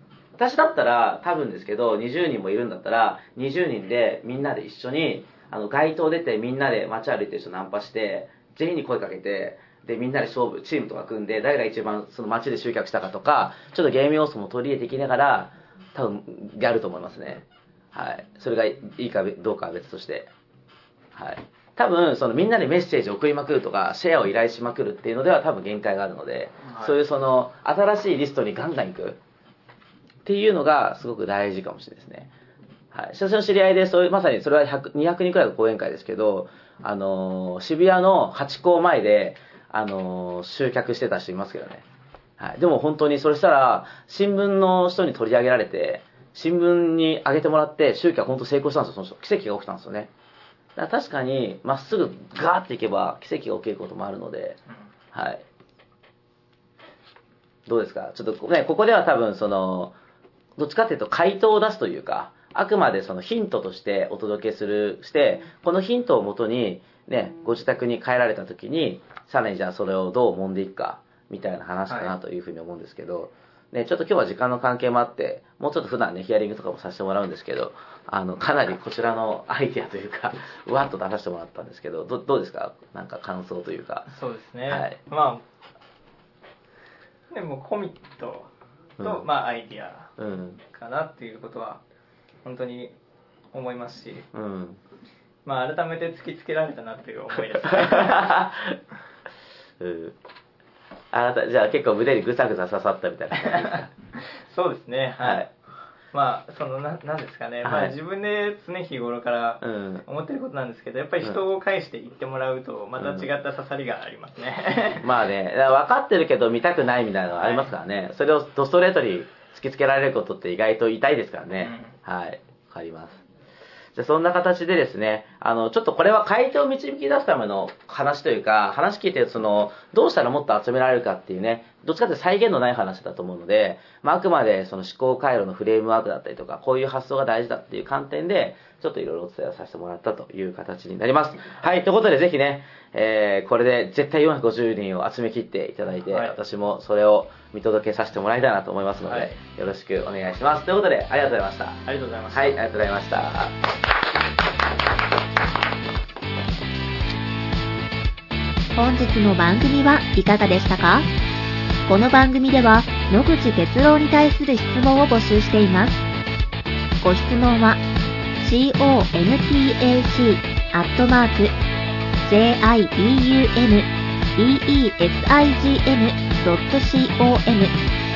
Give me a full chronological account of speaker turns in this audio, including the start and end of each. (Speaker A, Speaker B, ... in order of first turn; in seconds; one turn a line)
Speaker A: 0.4-20.3
Speaker A: 21.1-29.2
Speaker B: 26.6-26.9
Speaker A: 30.2-32.3
Speaker A: 32.9-41.8
Speaker A: 42.4-50.1
Speaker A: 50.8-54.6
Speaker A: 55.1-55.4
Speaker A: 57.6-59.9
Speaker A: 60.6-84.1
Speaker B: 71.9-72.1
Speaker B: 84.1-85.4
Speaker A: 84.7-85.0
Speaker B: 87.3-91.8
Speaker A: 89.0-89.2
Speaker A: 90.2-90.6
Speaker B: 92.4-92.9
Speaker B: 93.5-94.3
Speaker A: 94.3-94.8
Speaker B: 95.4-98.3
Speaker A: 97.6-98.8
Speaker A: 99.8-100.2
Speaker A: 101.1-103.9
Speaker B: 103.4-105.5
Speaker A: 105.2-105.5
Speaker B: 106.1-115.1
Speaker A: 107.6-108.0
Speaker A: 109.6-110.0
Speaker A: 113.0-113.3
Speaker A: 115.0-123.2
Speaker B: 117.3-117.7
Speaker B: 121.6-122.0
Speaker A: 123.9-153.6
Speaker B: 146.1-146.3
Speaker B: 149.0-149.3
Speaker B: 151.8-152.6
Speaker C: 158.7-161.1
Speaker C: 161.8-166.0
Speaker C: 167.0-167.8
Speaker C: 168.4-171.6
Speaker C: 172.2-177.8